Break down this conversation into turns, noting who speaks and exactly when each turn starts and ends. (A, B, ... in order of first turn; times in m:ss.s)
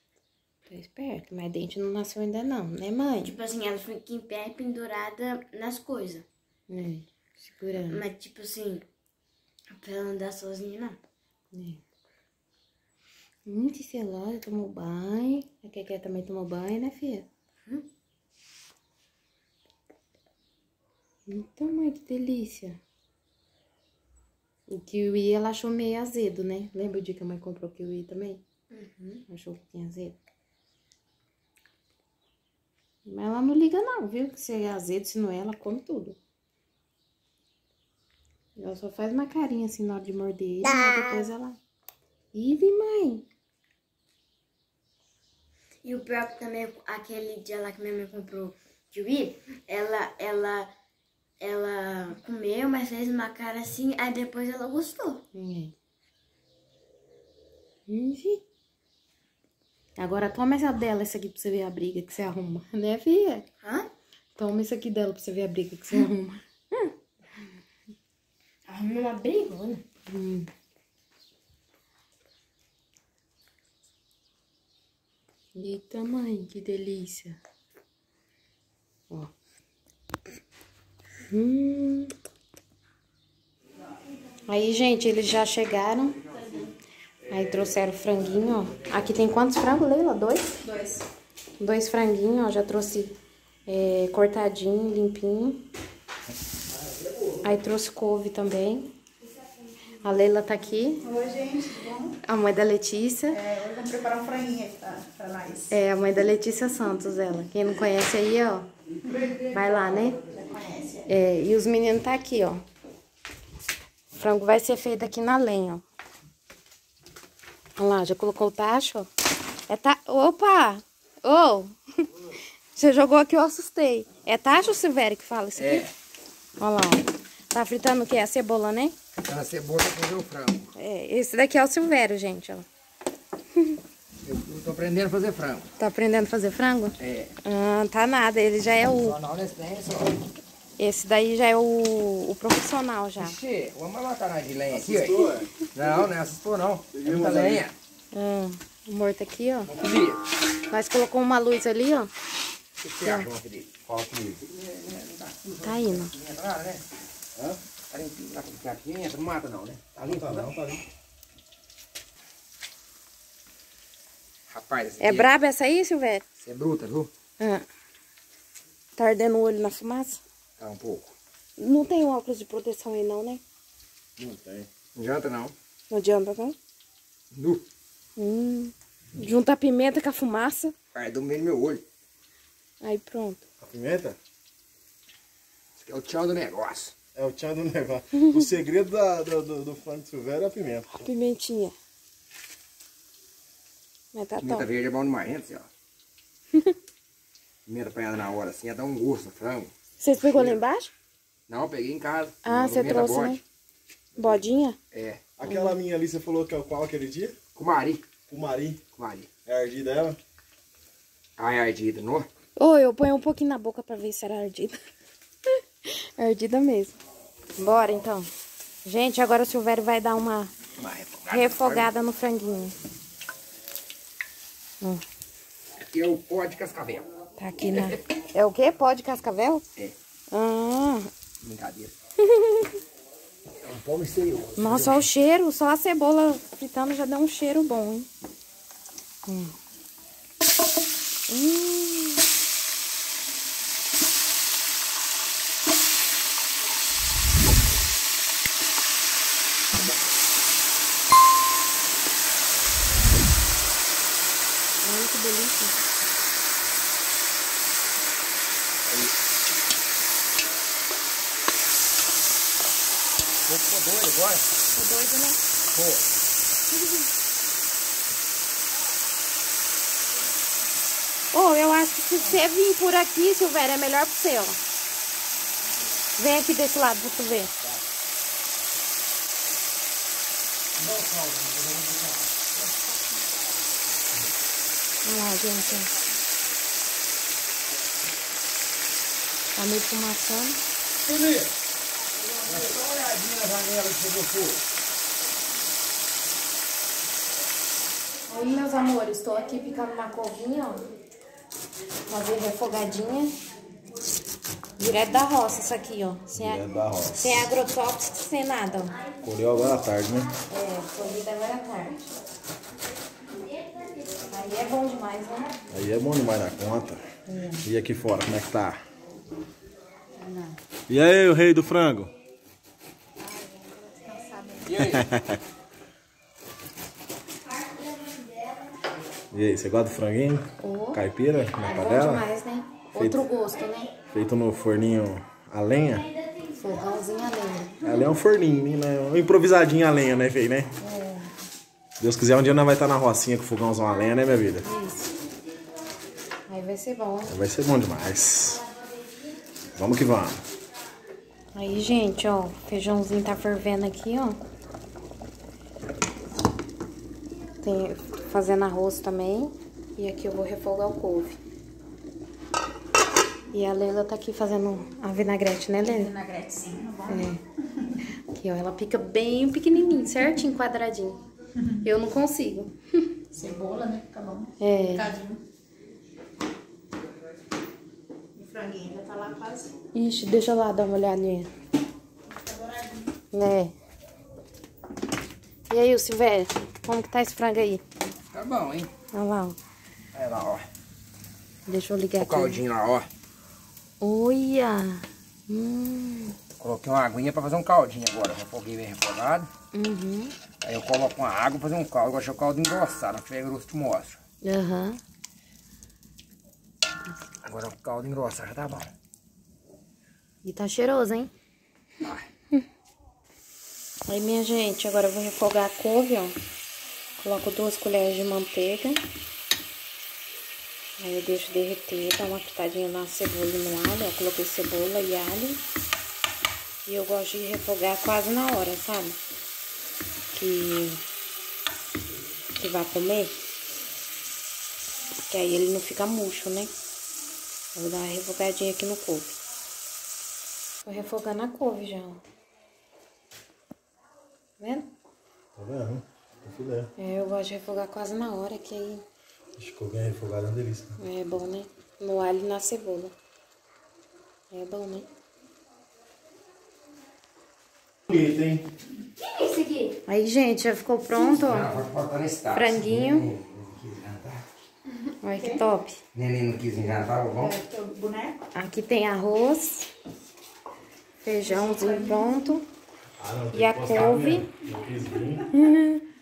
0:00.7-0:03.3 A
0:03.2-0:06.2 B
0:06.7-0:08.0 A
0:07.8-0:08.9 B
0:09.7-0:11.0 B
0:11.5-0:11.8 A
0:13.5-0:17.3 A
0:21.3-0:22.8 A
0:24.7-0:28.4 A
0:28.7-0:29.2 B
0:29.3-0:30.2 A
0:33.0-0:36.2 A
0:38.6-0:41.6 A
0:42.3-0:43.2 A
0:45.8-0:50.7 B
0:51.4-0:55.2 B
0:55.3-0:55.7 A
0:57.9-0:58.4 A
1:00.0-1:03.5 A
1:03.6-1:03.9 B
1:04.4-1:06.9 A
1:08.7-1:09.8 B
1:10.1-1:10.5 A
1:15.6-1:17.4 A
1:21.3-1:22.1 A
1:24.5-1:26.2 A
1:27.3-1:30.6 A
1:30.6-1:31.0 C
1:31.6-1:33.2 A
1:33.7-1:35.7 A
1:37.4-1:38.9 A
1:40.0-1:41.0 A
1:41.0-1:42.2 C
1:42.2-1:43.4 A
1:43.3-1:45.8 C
1:45.7-1:48.7 A
1:49.4-1:50.2 A
1:50.3-1:51.1 C
1:51.1-1:52.6 A
1:54.1-1:55.8 A
1:57.8-1:59.1 A
1:59.7-2:01.8 A
2:02.8-2:05.9 A
2:05.6-2:05.9 D
2:06.6-2:09.0 A
2:09.2-2:10.7 D
2:10.8-2:12.6 A
2:14.2-2:15.7 D
2:15.8-2:19.2 A
2:17.0-2:17.3 D
2:18.9-2:20.3 D
2:20.8-2:23.4 A
2:23.2-2:27.8 D
2:24.7-2:25.5 E
2:26.9-2:27.6 E
2:28.1-2:29.7 A
2:29.7-2:30.2 D
2:30.7-2:32.1 A
2:32.8-2:36.9 D
2:33.9-2:34.4 E
2:35.6-2:36.1 A
2:37.4-2:37.6 E
2:37.9-2:40.6 D
2:40.0-2:40.8 E
2:44.5-2:45.3 D
2:45.0-2:46.2 A
2:46.4-2:47.1 D
2:47.4-2:47.6 A
2:49.0-2:50.2 A
2:50.6-2:51.1 D
2:51.6-2:53.4 A
2:54.2-2:54.7 E
2:55.0-2:55.5 D
2:55.9-2:56.6 A
2:57.3-2:57.6 D
2:58.2-3:00.7 A
3:00.9-3:01.8 D
3:02.8-3:03.4 A
3:03.6-3:04.2 E
3:05.8-3:06.9 D
3:07.2-3:10.9 E
3:08.1-3:08.5 A
3:10.9-3:11.7 A
3:14.1-3:14.7 A
3:14.4-3:15.7 D
3:17.7-3:20.6 D
3:20.0-3:20.9 A
3:21.5-3:23.4 D
3:22.4-3:23.4 A
3:24.2-3:24.8 A
3:24.9-3:25.2 D
3:25.4-3:27.4 E
3:25.4-3:25.8 A
3:27.6-3:28.0 D
3:28.3-3:28.8 E
3:29.0-3:29.3 D
3:29.4-3:30.2 E
3:31.4-3:32.3 D
3:32.6-3:34.8 A
3:35.9-3:37.0 A
3:37.6-3:38.3 A
3:38.8-3:40.5 A
3:40.8-3:41.9 D
3:41.3-3:42.8 A
3:45.9-3:47.1 D
3:47.4-3:49.6 A
3:50.3-3:51.1 A
3:51.4-3:52.0 D
3:52.2-3:52.7 A
3:53.6-3:55.1 D
3:54.6-3:58.1 A
3:59.3-3:59.5 A
4:01.3-4:02.2 A
4:14.8-4:15.8 A
4:18.9-4:19.1 D
4:23.4-4:24.4 D
4:24.7-4:25.4 A
4:25.7-4:26.0 D
4:31.3-4:34.6 A
4:36.2-4:37.5 A
4:40.8-4:42.7 D
4:45.0-4:45.9 A
4:49.5-4:50.6 A
4:51.0-4:51.5 D
4:52.4-4:54.6 D
4:58.3-5:00.8 A
5:02.1-5:03.3 A
5:04.8-5:06.6 A
5:06.3-5:07.4 E
5:07.2-5:09.0 A
5:09.2-5:10.3 E
5:10.5-5:12.1 A
5:14.3-5:15.5 A
5:15.7-5:17.0 E
5:17.3-5:17.7 A
5:17.6-5:18.8 E
5:20.2-5:20.6 C
5:20.9-5:22.1 E
5:23.2-5:24.7 C
5:24.6-5:25.1 D
5:24.8-5:25.4 E
5:29.3-5:32.2 E
5:30.6-5:31.0 A
5:31.5-5:33.9 A
5:33.0-5:33.2 E
5:34.1-5:36.1 E
5:36.6-5:37.8 A
5:37.8-5:40.7 E
5:40.8-5:41.3 A
5:42.0-5:44.7 E
5:44.6-5:45.1 A
5:46.5-5:47.3 A
5:47.3-5:48.6 E
5:49.8-5:50.4 E
5:51.5-5:54.4 A
5:57.6-6:01.4 A
6:03.5-6:06.1 A
6:05.8-6:07.3 C
6:07.1-6:07.4 A
6:08.3-6:11.2 A
6:11.8-6:12.7 A
6:13.3-6:15.4 C
6:14.6-6:15.1 A
6:18.3-6:19.7 C
6:19.9-6:21.5 A
6:22.3-6:23.1 C
6:23.3-6:23.7 A
6:25.7-6:27.8 A
6:28.3-6:28.9 D
6:29.1-6:29.6 A
6:30.2-6:30.6 D
6:31.7-6:32.6 A
6:32.2-6:33.1 D
6:34.0-6:36.4 A
6:36.6-6:39.5 D
6:39.7-6:40.3 A
6:40.6-6:44.2 D
6:44.4-6:45.0 A
6:47.4-6:48.9 D
6:50.4-6:51.3 A
6:52.0-6:52.3 D
6:54.1-6:56.4 A
6:57.2-6:59.0 A
7:01.0-7:05.6 A
7:06.9-7:09.2 A
7:10.3-7:11.0 A
7:12.6-7:13.4 A
7:15.3-7:16.7 A
7:17.8-7:19.4 A
7:20.8-7:22.2 A
7:24.6-7:24.9 A
7:25.6-7:26.9 E
7:27.0-7:29.0 A
7:29.6-7:31.0 E
7:31.0-7:33.1 A
7:34.5-7:35.0 A
7:38.1-7:38.6 E
7:40.1-7:41.7 A
7:41.3-7:44.4 D
7:42.5-7:43.3 A
7:45.2-7:46.0 A
7:45.3-7:45.6 C
7:46.1-7:47.6 D
7:47.3-7:48.4 C
7:48.6-7:49.9 A
7:51.2-7:52.7 A
7:51.4-7:52.3 C
7:53.2-7:55.5 E
7:53.5-7:54.5 A
7:55.5-7:56.0 A